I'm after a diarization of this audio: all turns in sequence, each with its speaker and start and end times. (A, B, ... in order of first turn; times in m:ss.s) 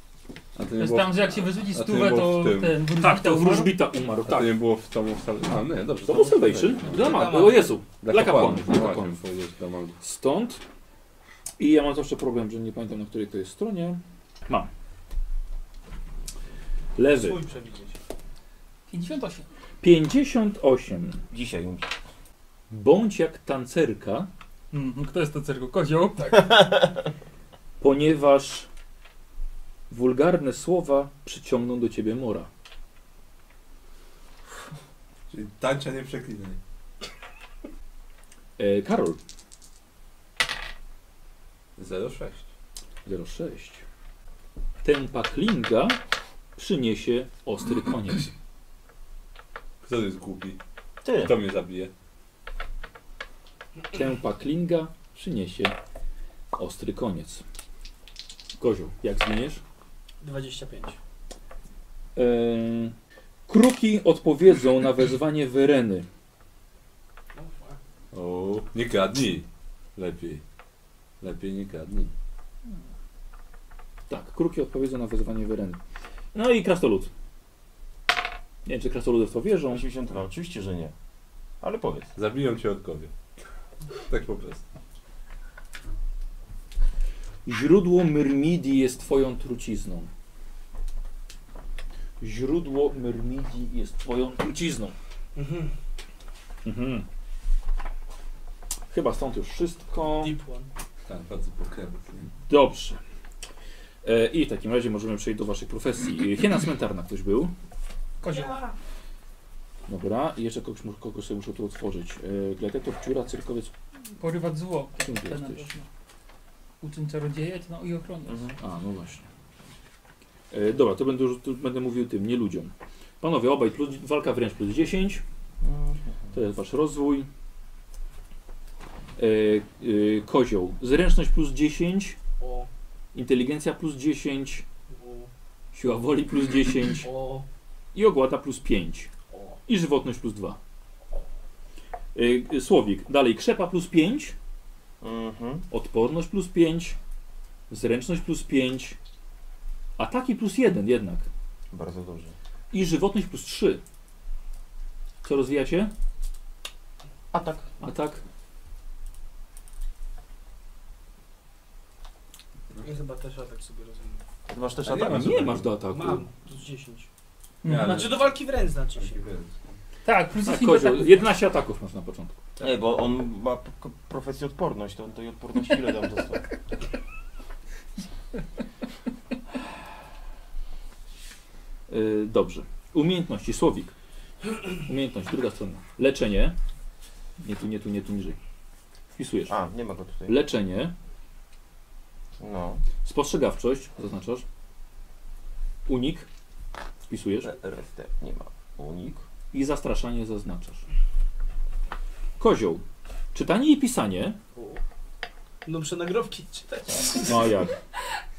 0:00.5-0:02.8 A
0:00.8-0:03.8 B
0:03.0-0:04.6 C
0:04.3-0:07.1 A
0:06.0-0:09.2 C
0:06.9-0:07.8 D
0:08.0-0:10.0 A
0:10.0-0:10.6 C
0:11.6-0:14.7 C
0:17.0-0:17.4 C
0:17.1-0:18.0 D
0:18.9-0:19.4 B
0:19.8-0:21.2 C
0:21.3-0:21.9 E
0:22.7-0:24.3 C
0:24.7-0:26.5 B
0:26.2-0:27.1 E
0:27.8-0:28.7 C
0:29.9-0:32.5 C
0:35.3-0:36.6 A
0:38.6-0:39.2 C
0:41.8-0:42.5 A
0:43.0-0:43.8 C
0:44.8-0:46.0 C
0:46.6-0:48.3 C
0:49.8-0:50.6 A
0:51.0-0:51.3 E
0:51.1-0:51.9 A
0:53.9-0:55.8 C
0:56.5-0:57.4 C
0:58.6-0:59.6 C
1:00.2-1:01.0 D
1:02.2-1:02.9 C
1:03.5-1:06.1 C
1:07.3-1:07.8 D
1:08.1-1:10.4 A
1:11.2-1:12.1 A
1:14.1-1:15.8 C
1:16.3-1:17.1 C
1:18.6-1:19.8 C
1:19.7-1:20.9 E
1:21.6-1:22.1 E
1:22.2-1:23.1 A
1:24.1-1:24.6 A
1:27.4-1:30.1 C
1:32.2-1:34.9 C
1:35.3-1:35.7 D
1:36.6-1:37.0 C
1:38.9-1:40.3 C
1:40.1-1:40.7 D
1:41.1-1:42.3 A
1:42.5-1:43.0 C
1:44.0-1:47.5 C
1:48.2-1:48.6 B
1:48.2-1:48.7 D
1:49.9-1:53.7 C
1:54.2-1:55.8 B
1:55.0-1:55.7 C
1:56.8-1:58.4 B
1:58.3-1:58.6 E
1:58.6-1:59.2 C
2:00.5-2:05.2 C
2:05.6-2:06.0 E
2:06.3-2:07.3 C
2:09.2-2:12.2 C
2:12.4-2:12.7 D
2:13.1-2:14.6 C
2:14.9-2:15.3 D
2:15.7-2:17.1 C
2:17.0-2:17.5 D
2:17.9-2:19.1 C
2:19.3-2:19.6 D
2:19.6-2:20.6 C
2:22.1-2:24.3 C
2:25.0-2:25.6 E
2:25.7-2:27.0 C
2:27.7-2:29.0 C
2:30.0-2:31.3 C
2:31.7-2:32.3 E
2:32.7-2:33.8 C
2:35.2-2:35.9 C
2:37.3-2:37.7 E
2:37.8-2:38.2 C
2:42.8-2:44.2 D
2:44.5-2:45.6 E
2:44.8-2:45.6 A
2:44.9-2:46.2 C
2:45.9-2:47.1 D
2:47.6-2:48.1 B
2:47.6-2:48.3 A
2:47.7-2:49.2 D
2:49.0-2:49.7 A
2:50.0-2:51.2 B
2:50.4-2:52.4 C
2:52.6-2:56.4 E
3:01.9-3:03.9 C
3:04.8-3:06.6 C
3:07.4-3:08.4 C
3:09.1-3:09.5 C
3:09.5-3:10.4 E
3:10.2-3:10.9 C
3:12.4-3:12.8 E
3:13.0-3:14.4 C
3:15.8-3:16.3 C
3:17.1-3:17.5 C
3:17.4-3:19.2 E
3:19.5-3:20.8 C
3:22.4-3:22.8 C
3:23.3-3:24.4 C
3:24.5-3:24.8 D
3:25.6-3:27.6 D
3:27.2-3:27.7 C